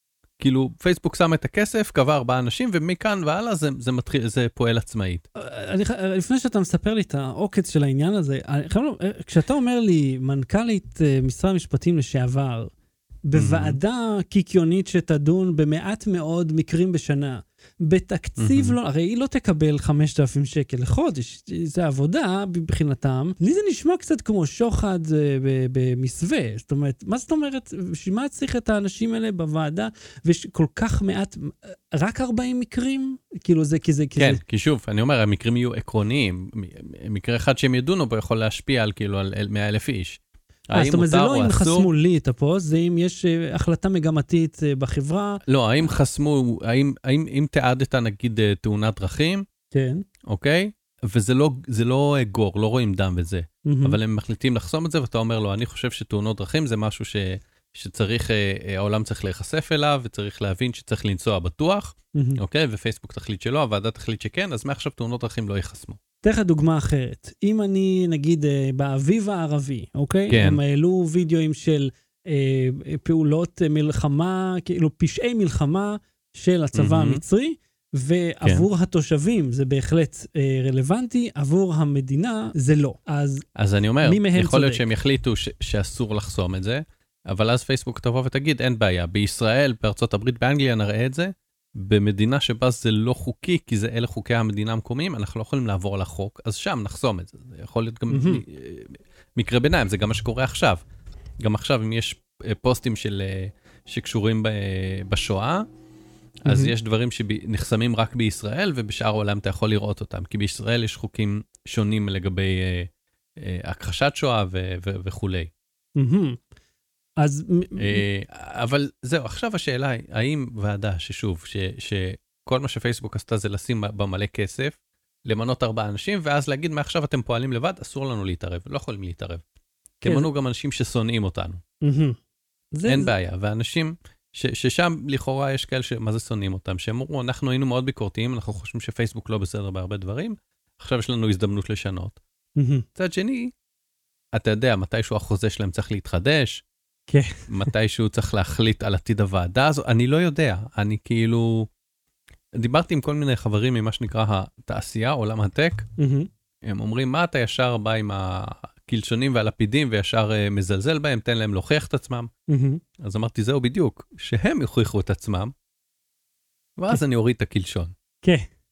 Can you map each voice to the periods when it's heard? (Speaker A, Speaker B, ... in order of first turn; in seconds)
Speaker A: 0.4-5.2, 13.3-13.8, 18.4-18.8, 34.2-40.2, 40.7-41.9, 45.5-49.5, 50.3-66.0, 70.3-70.6, 76.7-77.2, 83.5-100.8, 101.4-105.7, 106.4-115.5, 117.8-129.4, 130.0-131.6, 132.9-142.2, 142.9-143.5, 144.3-146.6, 147.5-151.7, 152.6-155.9, 156.6-162.3, 163.0-165.5, 166.8-167.9
Speaker B: 5.4-12.7, 13.2-34.4, 40.7-45.4, 49.7-50.0, 53.6-54.0, 62.1-62.4, 66.2-83.5, 84.0-84.8, 98.1-98.4, 106.5-106.7, 116.0-116.4, 117.2-118.0, 131.8-132.2, 132.7-133.1, 142.6-142.9, 147.1-147.5, 156.0-156.3, 162.5-162.8, 168.2-168.5